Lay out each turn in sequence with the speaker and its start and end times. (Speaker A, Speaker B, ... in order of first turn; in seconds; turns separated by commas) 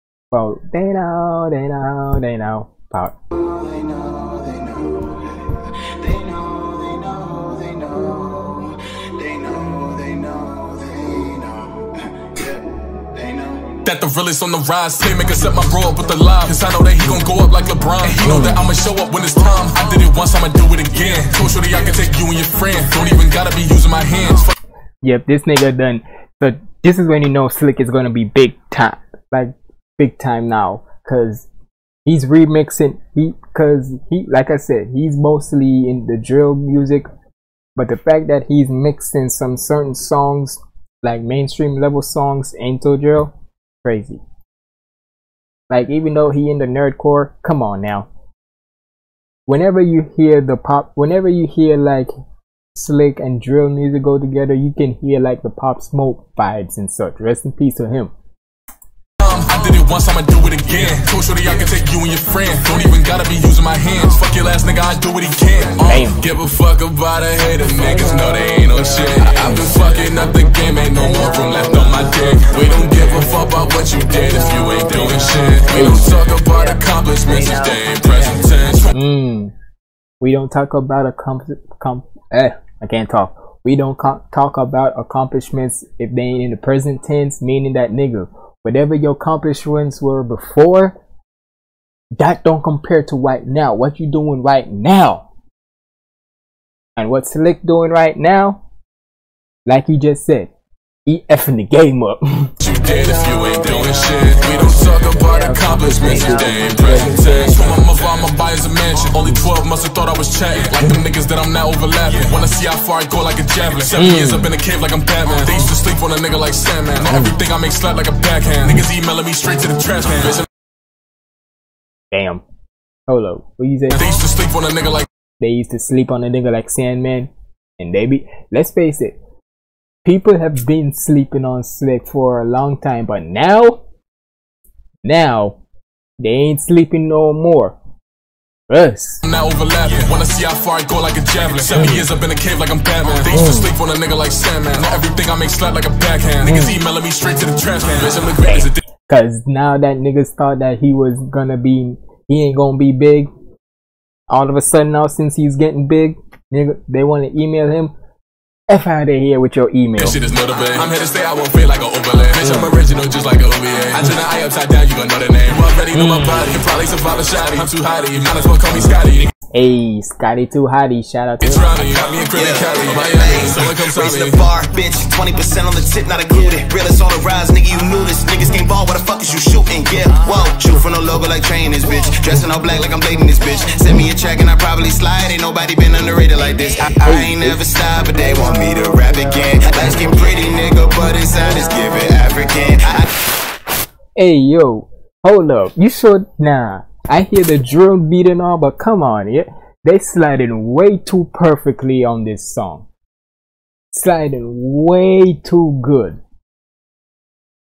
Speaker A: 0.3-3.2, Speaker B: 3.4-13.8, Speaker C: 13.8-24.5, Speaker A: 18.3-18.6, Speaker A: 25.0-31.5, Speaker A: 32.1-37.1, Speaker A: 37.8-44.2, Speaker A: 45.7-48.1, Speaker A: 49.5-52.1, Speaker A: 52.7-58.1, Speaker C: 59.2-78.9, Speaker A: 65.8-66.2, Speaker A: 78.9-79.5, Speaker A: 80.2-91.0, Speaker A: 92.2-95.3, Speaker A: 97.0-98.6, Speaker A: 99.7-100.5, Speaker A: 101.1-102.5, Speaker C: 102.6-120.5, Speaker A: 105.3-107.7, Speaker A: 114.0-114.5, Speaker A: 122.1-122.4, Speaker A: 123.1-124.0, Speaker C: 123.9-125.1, Speaker A: 125.4-129.2, Speaker A: 130.1-133.8, Speaker A: 135.0-135.6, Speaker A: 136.2-137.8, Speaker A: 138.7-139.2, Speaker C: 139.2-148.8, Speaker A: 141.8-142.1, Speaker A: 143.3-143.7, Speaker A: 146.4-146.8, Speaker A: 148.5-153.3, Speaker A: 154.3-157.9, Speaker A: 158.7-160.2, Speaker C: 160.0-169.3, Speaker A: 165.9-166.4, Speaker A: 169.5-172.0, Speaker C: 171.4-174.4, Speaker B: 172.3-193.1, Speaker A: 187.0-187.6, Speaker A: 194.2-202.9, Speaker A: 203.9-206.2